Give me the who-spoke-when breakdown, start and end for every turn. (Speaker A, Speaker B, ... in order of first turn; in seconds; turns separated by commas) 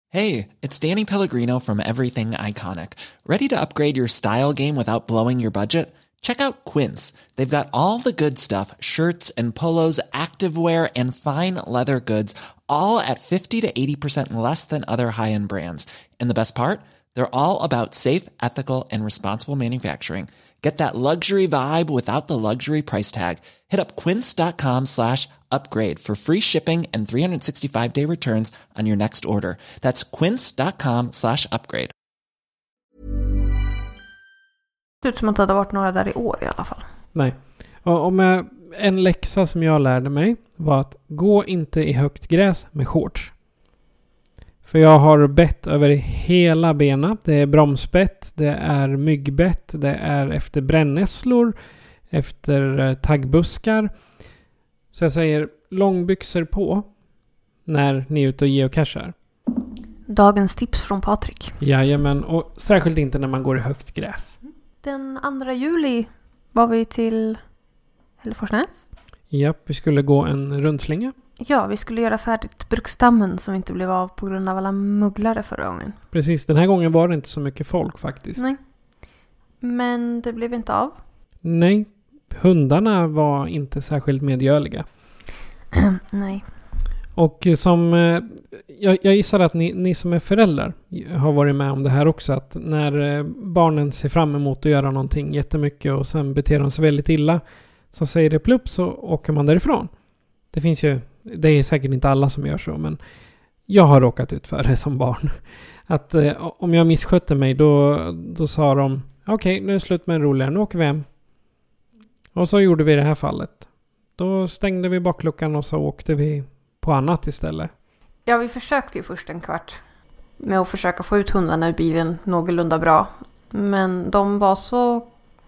Speaker A: 0.1-31.9, Speaker B: 35.0-36.9, Speaker C: 37.1-43.4, Speaker C: 44.6-51.6, Speaker C: 52.1-54.2, Speaker C: 54.9-57.0, Speaker C: 57.6-59.1, Speaker B: 60.1-61.6, Speaker C: 61.6-64.4, Speaker B: 64.8-67.4, Speaker B: 68.2-68.9, Speaker C: 69.3-71.1, Speaker B: 71.4-76.0, Speaker C: 76.1-78.4, Speaker B: 79.6-81.0, Speaker C: 81.4-84.9, Speaker B: 86.0-86.4, Speaker C: 87.1-99.9, Speaker C: 100.5-103.0, Speaker C: 103.7-111.1, Speaker C: 112.3-117.7, Speaker B: 118.3-119.8, Speaker B: 120.4-125.1